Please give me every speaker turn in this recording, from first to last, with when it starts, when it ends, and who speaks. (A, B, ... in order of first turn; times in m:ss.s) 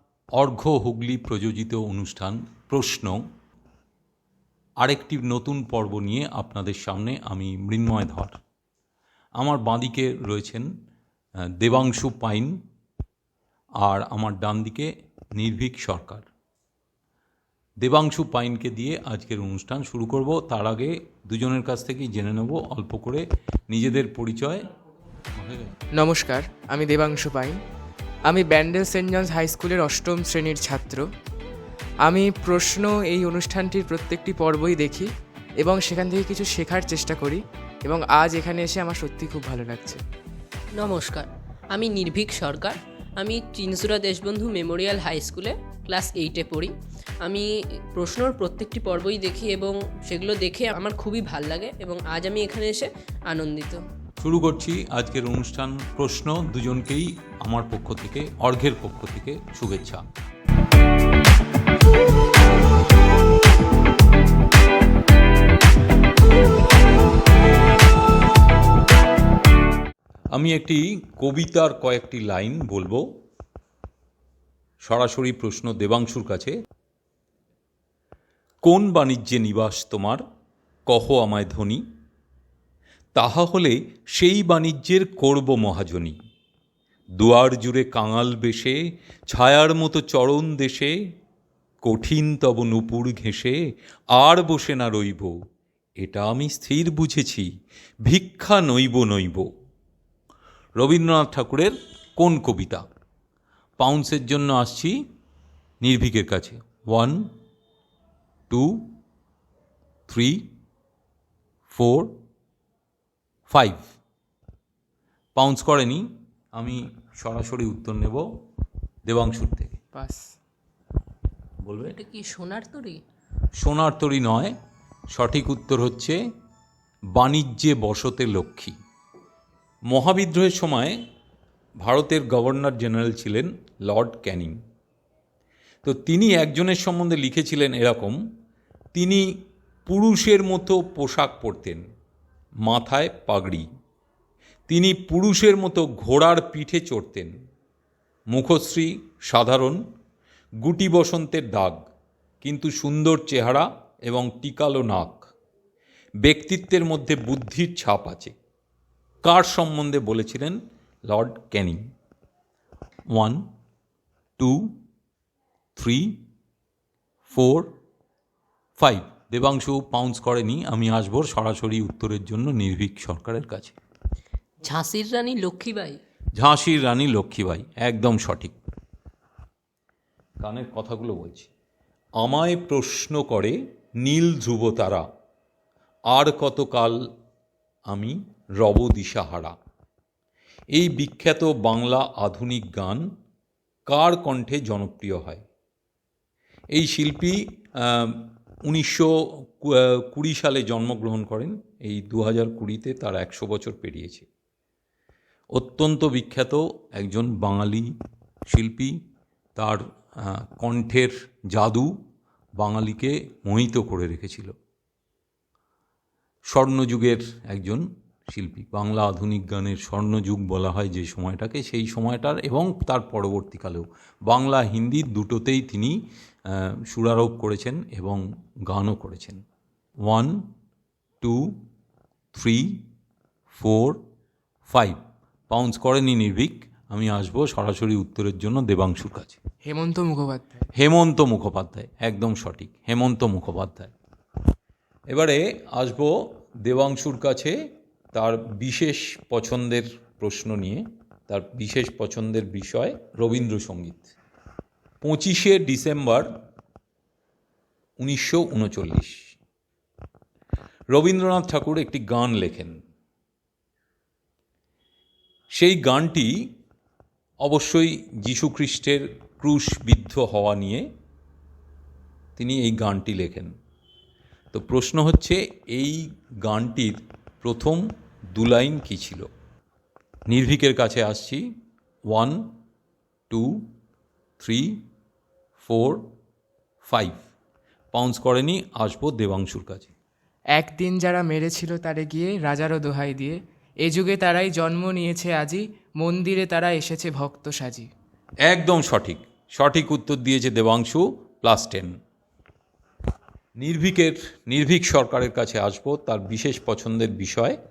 0:00.4-0:03.2 A
0:04.8-0:08.4 A
0:09.4-0:10.7 A
0:11.4-0:12.6 A
0:13.8-0:16.3 A
0:17.8-0:24.7 A
0:25.4-0:25.8 A
0:26.0-0:27.6 B
0:28.3-0:31.0 B
0:32.0-0:40.0 B
0:40.8-0:53.8 C
0:54.2-1:00.0 A
1:10.3-1:13.1 A
1:14.8-1:16.6 A
1:18.6-1:20.2 A
1:20.9-1:21.8 A
1:23.2-1:26.2 A
1:27.2-1:31.0 A
1:31.8-1:33.6 A
1:34.2-1:35.4 A
1:36.0-1:37.5 A
1:38.0-1:39.5 A
1:40.8-1:42.8 A
1:43.8-1:45.0 A
1:45.8-1:47.3 A
1:48.5-1:48.9 A
1:50.1-1:50.5 A
1:51.7-1:52.1 A
1:53.5-1:53.9 A
1:55.4-1:58.3 A
1:59.1-1:59.8 A
1:59.9-2:00.2 B
2:01.6-2:02.0 A
2:01.9-2:03.0 C
2:03.6-2:04.6 A
2:05.1-2:06.2 A
2:07.2-2:08.8 A
2:09.9-2:11.0 A
2:11.8-2:14.6 A
2:15.8-2:18.2 A
2:18.9-2:19.3 A
2:19.9-2:21.8 A
2:22.7-2:23.7 A
2:24.7-2:27.3 A
2:28.3-2:29.8 A
2:30.6-2:31.8 A
2:32.4-2:35.3 A
2:36.2-2:38.4 A
2:39.2-2:41.8 A
2:43.1-2:43.4 A
2:44.4-2:44.8 A
2:45.8-2:46.2 A
2:47.3-2:47.7 A
2:48.8-2:53.8 A
2:54.6-2:56.0 C
2:56.4-2:58.6 A
3:00.4-3:01.5 A
3:02.2-3:05.1 A
3:06.1-3:07.0 A
3:07.9-3:09.6 A
3:10.8-3:13.1 A
3:13.9-3:15.4 A
3:16.7-3:24.3 A
3:25.5-3:27.9 A
3:28.5-3:29.0 A
3:29.6-3:32.0 A
3:32.6-3:34.6 A
3:36.5-3:49.4 A
3:50.1-3:50.5 A
3:51.2-3:51.6 A
3:52.3-3:52.9 A
3:53.5-3:54.0 A
3:54.7-3:59.4 A
3:59.6-4:00.7 B
4:00.8-4:03.9 A
4:05.1-4:07.6 A
4:08.1-4:14.1 A
4:15.0-4:16.3 A
4:18.0-4:19.4 A
4:20.9-4:22.8 A
4:25.5-4:26.4 A
4:27.4-4:30.9 A
4:32.4-4:33.5 A
4:34.5-4:37.8 A
4:38.4-4:39.3 A
4:40.3-4:41.4 A
4:42.1-4:42.5 A
4:43.3-4:43.7 A
4:44.4-4:44.8 A
4:45.6-4:46.1 A
4:46.8-4:47.2 A
4:47.9-4:49.9 A
4:50.6-4:57.9 B
4:58.4-5:02.0 A
5:03.6-5:07.6 A